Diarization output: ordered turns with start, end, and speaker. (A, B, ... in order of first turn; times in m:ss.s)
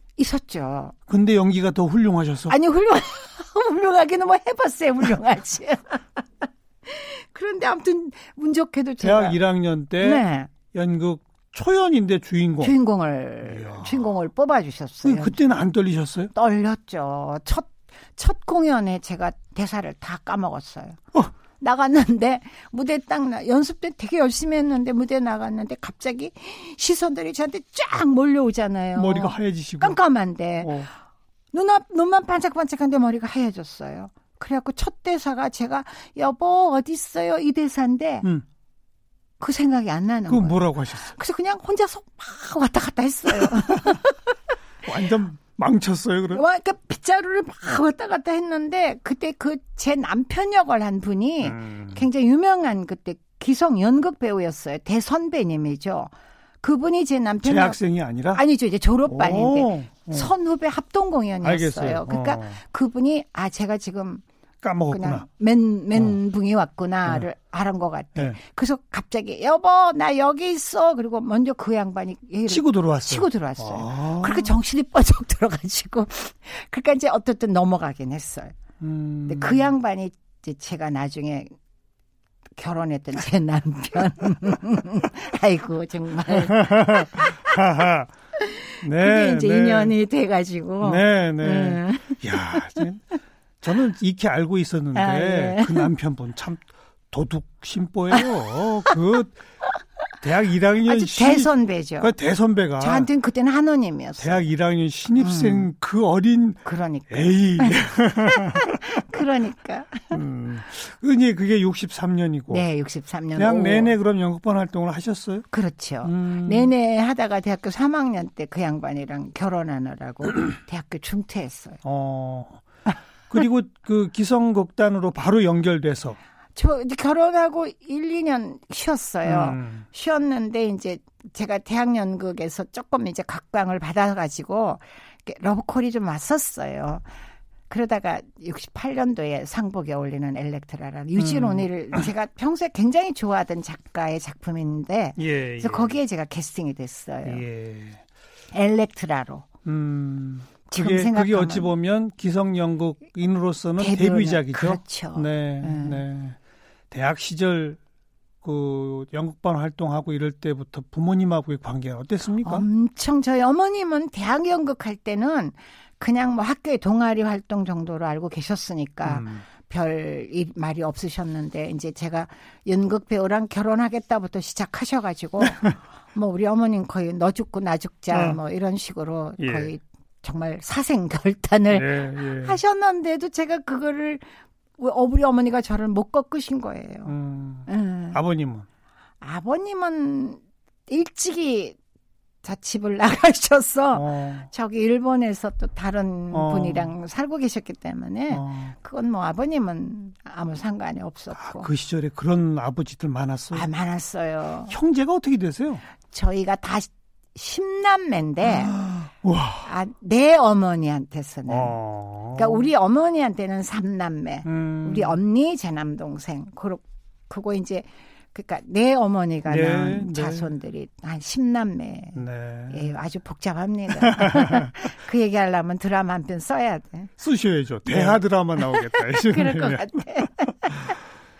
0:00.2-0:00.9 A
0:01.1-0:02.5 B
0:02.5-0:09.4 A
0:09.0-0:12.7 B
0:10.0-0:10.5 A
0:12.6-0:15.4 A
0:13.4-0:14.1 B
0:15.0-0:16.3 B
0:16.3-0:21.0 A
0:21.6-0:30.9 A
0:28.9-0:30.0 B
0:30.6-0:30.9 B
0:31.5-0:38.3 A
0:39.4-0:44.3 A
0:40.3-0:41.1 B
0:43.3-0:44.0 B
0:44.8-0:46.4 B
0:46.3-0:56.1 A
0:51.4-0:52.0 B
0:56.6-0:57.8 A
0:57.4-0:58.4 B
0:58.3-1:04.2 A
0:59.0-1:00.3 B
1:01.4-1:02.6 B
1:04.6-1:05.2 B
1:04.9-1:18.6 A
1:12.5-1:14.6 B
1:18.8-1:19.7 B
1:19.2-1:21.5 A
1:22.6-1:27.5 A
1:26.3-1:28.1 B
1:28.4-1:32.8 A
1:28.8-1:29.9 B
1:30.8-1:33.0 B
1:33.6-1:39.4 B
1:34.9-1:35.9 A
1:40.2-1:43.1 B
1:40.8-1:42.1 A
1:42.8-1:44.4 A
1:44.2-1:49.0 B
1:45.2-1:45.7 A
1:46.6-1:50.2 A
1:50.1-1:52.6 B
1:52.5-1:53.9 A
1:53.4-1:55.5 B
1:55.5-2:01.8 A
1:56.0-1:56.7 B
2:01.8-2:02.6 B
2:03.3-2:06.2 B
2:06.5-2:17.0 A
2:09.2-2:09.8 B
2:17.7-2:27.4 A
2:21.2-2:21.7 B
2:25.2-2:26.0 B
2:27.2-2:28.0 B
2:28.5-2:29.5 A
2:29.6-2:36.4 B
2:30.7-2:31.7 A
2:33.8-2:36.0 A
2:36.9-2:37.8 B
2:38.4-2:42.7 B
2:42.4-3:04.2 A
2:49.0-2:49.4 B
2:55.4-2:55.7 B
2:58.1-2:58.4 B
2:59.4-2:59.7 B
3:01.7-3:02.6 B
3:04.8-3:07.1 A
3:07.0-3:08.6 B
3:07.6-3:08.2 A
3:09.2-3:11.8 A
3:12.4-3:21.7 A
3:13.9-3:14.5 B
3:16.3-3:16.9 B
3:18.3-3:18.7 B
3:21.3-3:23.7 B
3:23.5-3:24.7 A
3:24.7-3:25.8 B
3:26.1-3:28.8 A
3:28.4-3:29.7 B
3:29.6-3:31.8 A
3:31.5-3:32.7 B
3:32.3-3:47.1 A
3:34.4-3:35.2 B
3:39.4-3:40.5 B
3:42.2-3:42.9 B
3:44.0-3:44.8 B
3:47.2-3:51.0 B
3:47.8-3:50.9 A